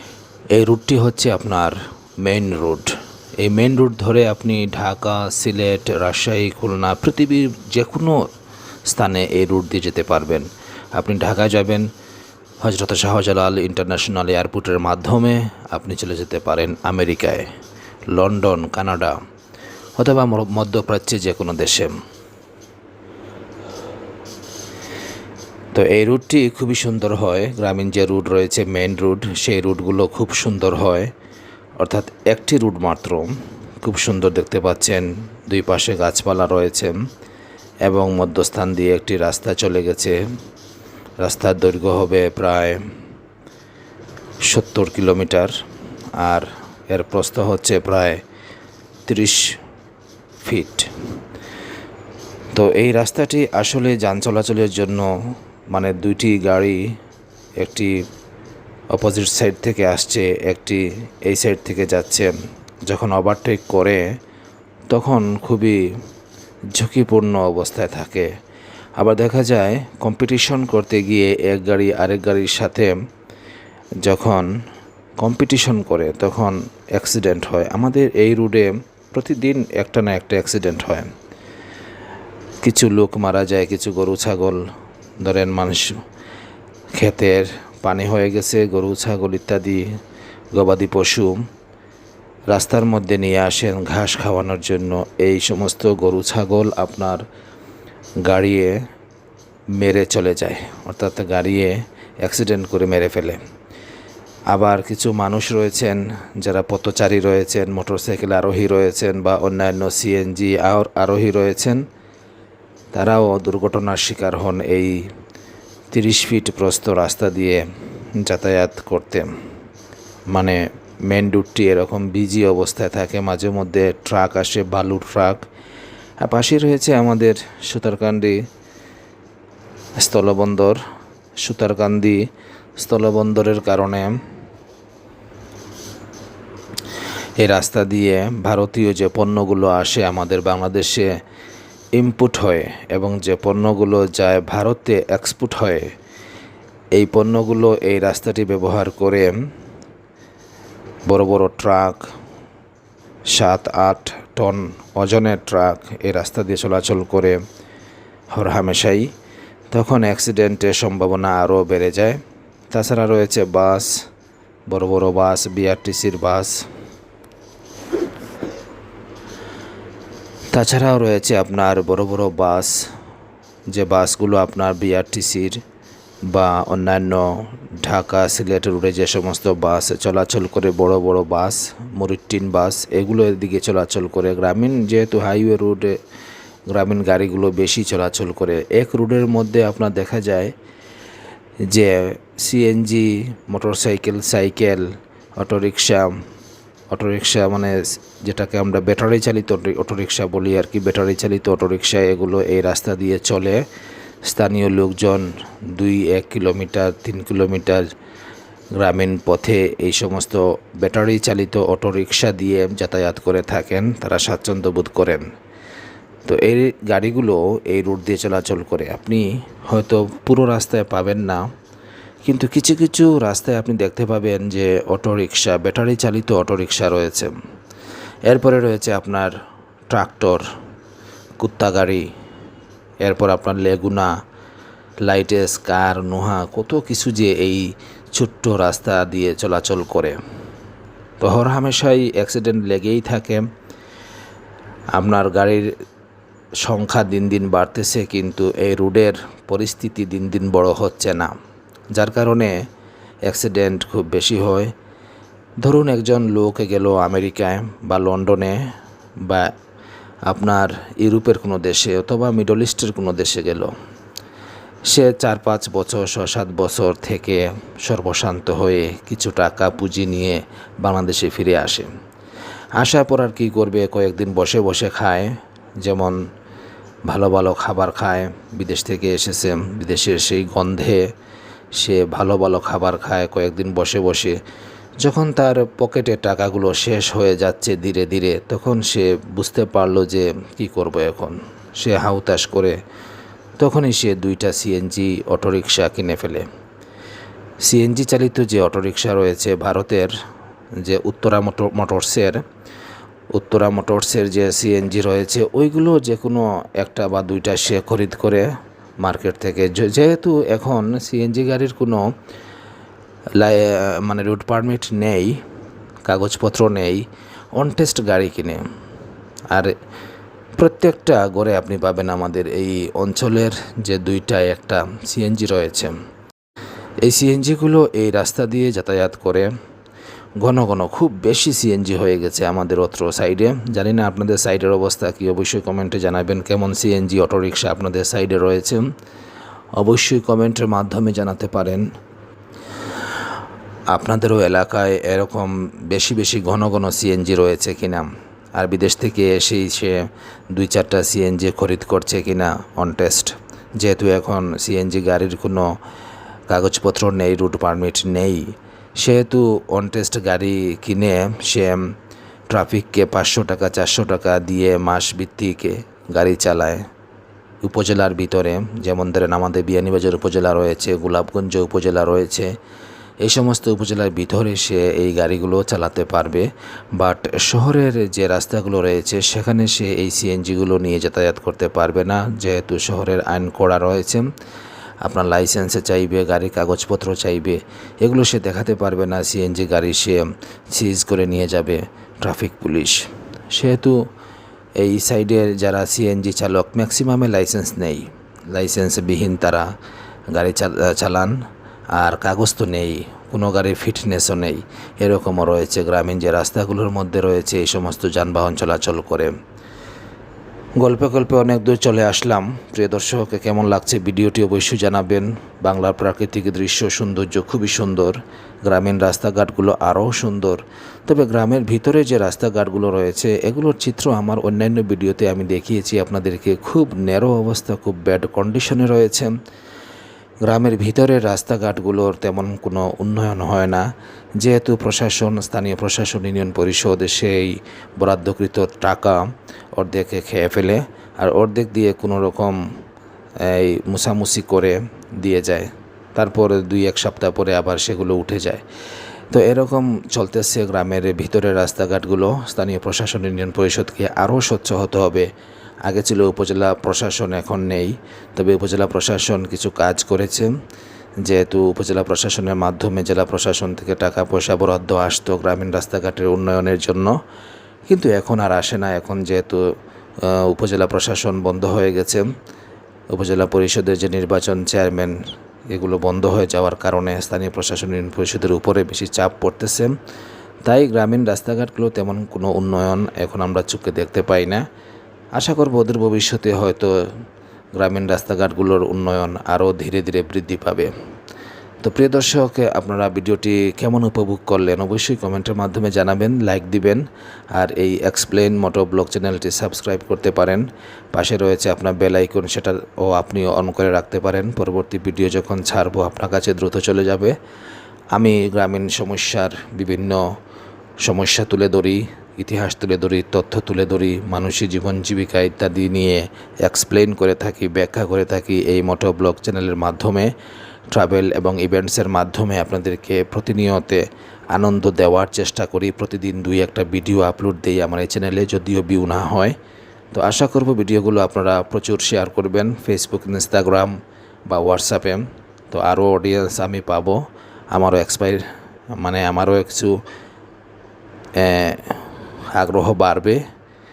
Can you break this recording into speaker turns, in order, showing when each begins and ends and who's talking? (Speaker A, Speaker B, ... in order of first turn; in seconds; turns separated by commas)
Speaker A: 0.6-8.3, Speaker A: 8.9-11.9, Speaker A: 12.6-17.5, Speaker A: 18.1-19.2, Speaker A: 20.0-21.9, Speaker A: 25.7-31.1, Speaker A: 31.8-37.0, Speaker A: 37.9-40.2, Speaker A: 41.2-42.8, Speaker A: 44.4-45.5, Speaker A: 46.2-48.2, Speaker A: 49.1-49.6, Speaker A: 50.4-50.9, Speaker A: 52.5-56.9, Speaker A: 57.6-58.0, Speaker A: 58.9-62.4, Speaker A: 62.9-64.0, Speaker A: 64.9-65.8, Speaker A: 66.7-68.3, Speaker A: 69.0-72.9, Speaker A: 74.0-74.5, Speaker A: 75.2-81.1, Speaker A: 82.6-84.7, Speaker A: 85.2-86.0, Speaker A: 87.0-89.9, Speaker A: 90.5-91.4, Speaker A: 92.5-97.3, Speaker A: 98.2-98.8, Speaker A: 99.8-103.4, Speaker A: 104.5-111.9, Speaker A: 112.9-115.1, Speaker A: 115.9-117.7, Speaker A: 118.2-119.3, Speaker A: 120.3-125.5, Speaker A: 126.2-128.4, Speaker A: 130.0-130.8, Speaker A: 131.4-132.2, Speaker A: 132.8-134.2, Speaker A: 137.4-141.2, Speaker A: 141.9-145.9, Speaker A: 147.0-149.3, Speaker A: 151.1-152.1, Speaker A: 153.3-157.4, Speaker A: 158.3-159.1, Speaker A: 159.7-162.2, Speaker A: 162.7-164.0, Speaker A: 164.7-166.7, Speaker A: 170.5-172.9, Speaker A: 173.7-175.6, Speaker A: 176.3-186.0, Speaker A: 186.7-190.5, Speaker A: 191.7-196.2, Speaker A: 196.9-203.6, Speaker A: 204.2-207.9, Speaker A: 208.8-215.3, Speaker A: 216.3-221.5, Speaker A: 222.2-227.3, Speaker A: 228.3-229.3, Speaker A: 229.9-230.4, Speaker A: 231.4-232.1, Speaker A: 233.0-234.1, Speaker A: 235.0-240.2, Speaker A: 241.2-243.5, Speaker A: 244.9-245.7, Speaker A: 246.6-251.3, Speaker A: 252.0-252.6, Speaker A: 253.3-254.7, Speaker A: 255.6-258.6, Speaker A: 259.2-259.5, Speaker A: 260.3-263.7, Speaker A: 264.9-271.9, Speaker A: 272.8-276.2, Speaker A: 277.1-281.1, Speaker A: 281.7-284.4, Speaker A: 285.0-292.8, Speaker A: 293.6-296.5, Speaker A: 297.6-300.1, Speaker A: 300.8-302.4, Speaker A: 303.3-308.5, Speaker A: 309.0-312.1, Speaker A: 313.4-315.4, Speaker A: 316.1-318.7, Speaker A: 320.6-326.0, Speaker A: 327.0-329.5, Speaker A: 330.4-338.9, Speaker A: 339.8-341.9, Speaker A: 343.9-355.8, Speaker A: 356.5-361.9, Speaker A: 362.5-366.8, Speaker A: 367.6-372.5, Speaker A: 373.2-384.3, Speaker A: 385.0-394.1, Speaker A: 394.8-399.7, Speaker A: 400.3-401.4, Speaker A: 401.9-409.3, Speaker A: 410.8-429.4, Speaker A: 430.4-433.9, Speaker A: 434.4-439.2, Speaker A: 439.8-442.6, Speaker A: 443.4-448.6, Speaker A: 449.3-455.3, Speaker A: 455.9-460.5, Speaker A: 461.2-467.2, Speaker A: 467.9-472.4, Speaker A: 473.1-479.9, Speaker A: 480.6-484.6, Speaker A: 485.4-486.9, Speaker A: 487.8-490.9, Speaker A: 491.8-507.4, Speaker A: 508.1-510.3, Speaker A: 511.0-520.3, Speaker A: 520.9-529.6, Speaker A: 530.1-534.0, Speaker A: 534.5-538.4, Speaker A: 539.0-540.0, Speaker A: 541.4-543.4